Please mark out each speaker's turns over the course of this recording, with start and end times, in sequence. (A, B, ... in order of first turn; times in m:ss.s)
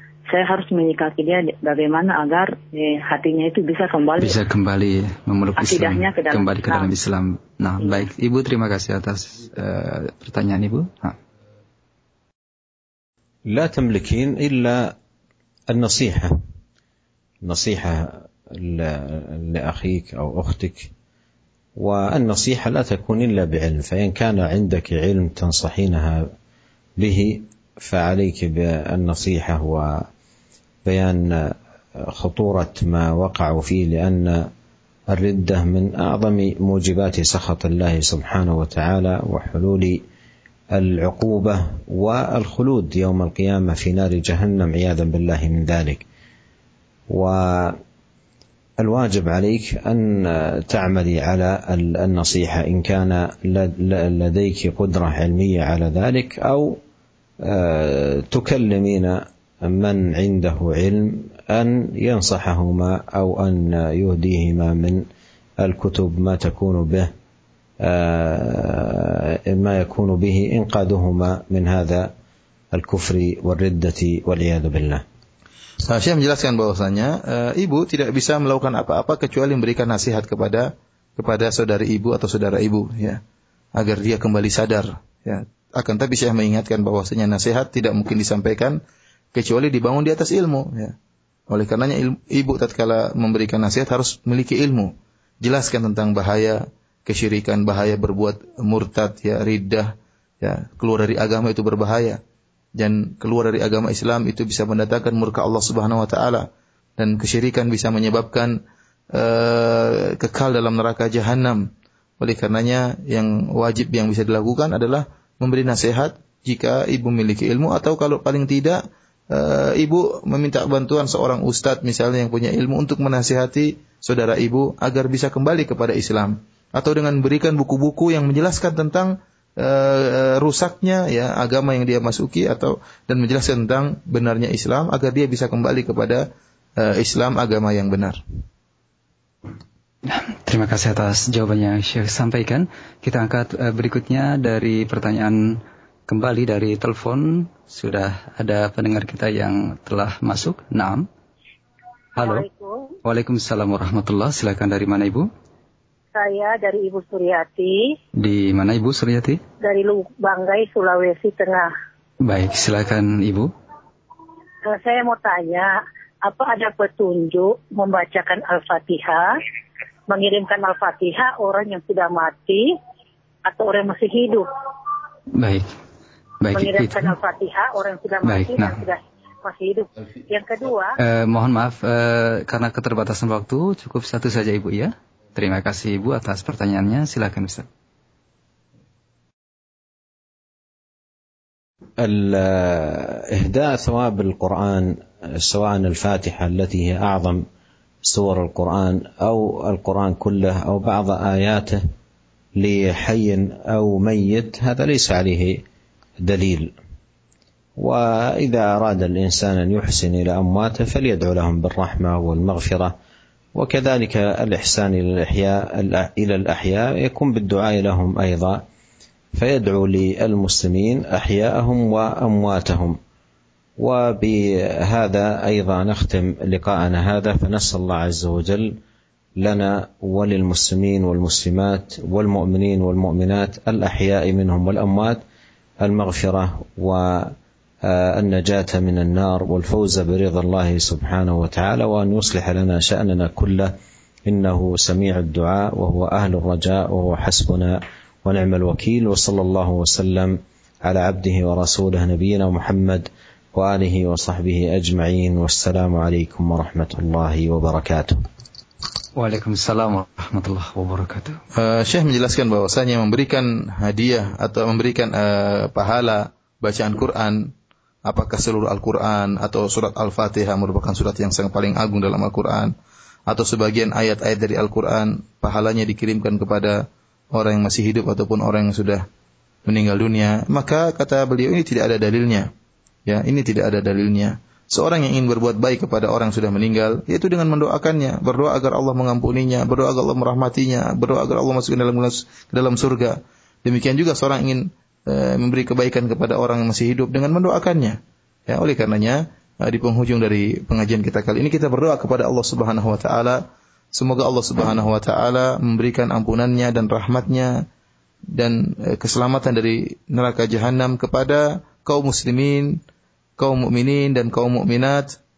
0:00.3-0:04.4 A
0:04.2-0:11.2 B
0:05.6-0:06.9 A
0:07.8-0:08.1 A
0:13.5-0:14.9 C
0:15.7-0:16.4 C
0:17.4-0:20.9 C
0:21.8-0:26.3 C
0:27.0-0:30.1 C
0:30.8-0:34.5 C
0:35.1-0:40.0 C
0:40.7-0:46.0 C
0:47.1-0:47.8 C
0:48.8-0:56.8 C
0:57.4-1:05.0 C
1:05.6-1:07.1 C
1:07.8-1:12.1 C
1:12.7-1:15.0 C
1:15.8-1:23.2 D
1:23.8-1:28.8 D
1:29.3-1:31.0 D
1:31.5-1:42.2 D
1:42.8-1:48.6 D
1:49.1-2:18.2 D
2:20.1-2:31.1 B
2:32.2-2:32.4 B
2:32.2-2:33.0 E
2:33.0-2:35.3 B
2:36.1-2:38.0 E
2:38.2-2:39.4 B
2:39.6-2:41.7 E
2:42.2-2:43.5 B
2:44.6-2:45.7 E
2:46.2-2:49.4 E
2:50.1-2:52.7 E
2:53.4-2:54.5 E
2:55.4-2:55.7 B
2:56.4-2:57.1 B
2:56.5-3:01.0 E
2:58.2-2:58.8 B
3:01.0-3:07.7 B
3:12.0-3:17.4 C
3:18.0-3:21.8 C
3:22.6-3:25.6 C
3:26.2-3:26.7 C
3:27.8-3:33.0 C
3:33.6-3:38.6 C
3:39.3-3:43.0 C
3:43.8-3:48.8 C
3:49.4-3:55.2 C
3:55.8-3:57.3 C
3:57.8-4:18.2 C
4:19.2-4:21.4 B
4:21.6-4:27.5 D
4:28.0-4:32.8 D
4:33.3-4:39.1 D
4:39.7-4:42.5 D
4:43.1-5:07.7 D
5:08.3-5:12.8 D
5:13.4-5:15.2 D